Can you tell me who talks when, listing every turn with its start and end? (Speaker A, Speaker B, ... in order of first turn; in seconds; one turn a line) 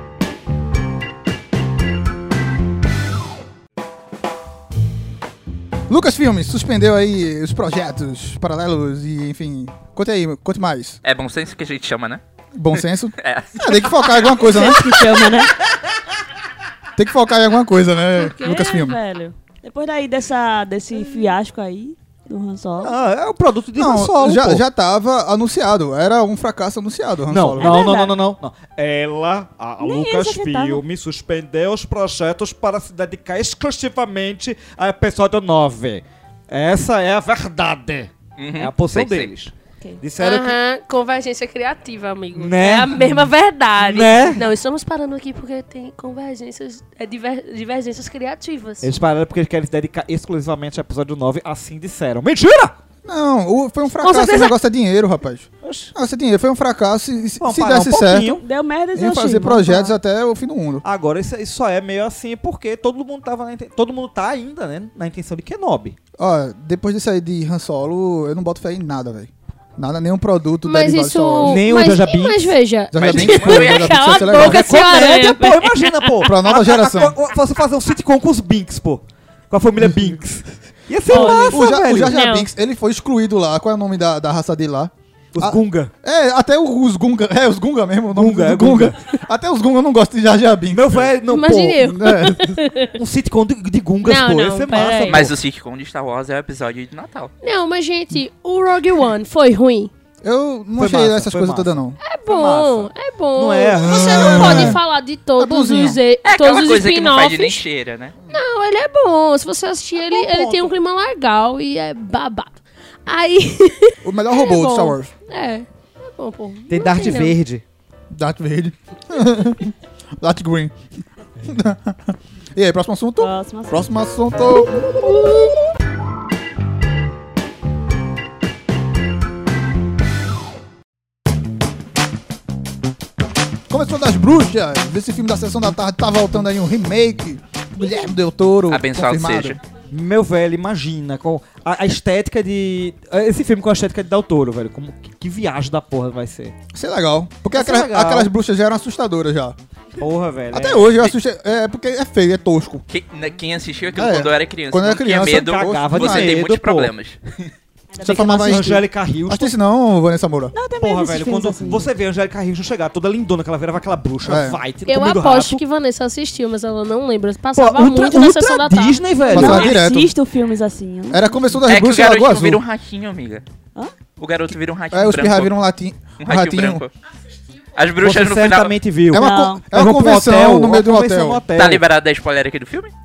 Speaker A: 5.9-11.0
Speaker B: 11.0-12.2
Speaker A: 12.6-15.1
Speaker B: 12.8-14.2
Speaker C: 14.4-15.6
Speaker A: 17.0-19.0
Speaker C: 18.2-22.9
Speaker D: 22.8-24.6
Speaker A: 23.8-27.8
Speaker D: 27.3-40.6
Speaker C: 27.6-28.2
Speaker C: 29.8-30.8
Speaker B: 38.4-39.3
Speaker E: 40.2-48.9
Speaker D: 42.4-44.4
Speaker D: 48.8-52.8
Speaker A: 53.0-58.4
Speaker E: 54.0-54.5
Speaker D: 55.6-55.9
Speaker D: 57.4-58.5
Speaker C: 58.4-60.0
Speaker A: 59.0-60.8
Speaker D: 60.8-66.0
Speaker A: 66.2-71.6
Speaker E: 70.7-76.1
Speaker D: 71.4-72.6
Speaker A: 72.9-74.6
Speaker B: 73.0-74.2
Speaker D: 74.2-82.2
Speaker A: 76.2-77.2
Speaker A: 79.8-80.2
Speaker E: 81.1-82.5
Speaker A: 81.1-91.1
Speaker D: 85.3-85.9
Speaker D: 88.1-89.0
Speaker D: 90.7-91.9
Speaker E: 91.3-93.0
Speaker A: 91.8-92.6
Speaker D: 92.9-95.4
Speaker E: 94.0-95.2
Speaker B: 95.1-97.3
Speaker E: 97.4-99.9
Speaker A: 100.2-102.0
Speaker D: 100.8-101.8
Speaker E: 102.0-107.6
Speaker D: 102.3-104.8
Speaker A: 103.8-104.8
Speaker A: 105.4-106.0
Speaker B: 106.2-108.2
Speaker E: 108.3-117.4
Speaker D: 110.1-110.7
Speaker A: 114.0-115.1
Speaker D: 116.7-117.6
Speaker A: 118.1-120.8
Speaker A: 121.4-125.5
Speaker C: 123.2-123.9
Speaker A: 133.7-139.6
Speaker B: 138.7-139.6
Speaker D: 139.9-146.6
Speaker A: 146.7-149.6
Speaker D: 147.5-148.3
Speaker D: 150.0-151.0
Speaker A: 150.5-152.8
Speaker B: 152.9-157.2
Speaker A: 153.9-156.4
Speaker D: 155.2-156.9
Speaker C: 157.9-158.8
Speaker A: 158.0-160.6
Speaker D: 158.2-159.5
Speaker C: 160.5-161.9
Speaker D: 160.8-165.6
Speaker A: 164.2-164.6
Speaker E: 164.9-169.3
Speaker D: 167.6-169.8
Speaker C: 169.3-171.6
Speaker A: 169.3-170.1
Speaker A: 171.1-172.6
Speaker B: 171.7-173.4
Speaker B: 174.2-175.5
Speaker A: 174.9-176.8
Speaker B: 176.2-176.9
Speaker B: 177.8-178.8
Speaker D: 178.0-181.8
Speaker A: 179.1-181.4
Speaker C: 179.1-179.6
Speaker B: 181.5-182.9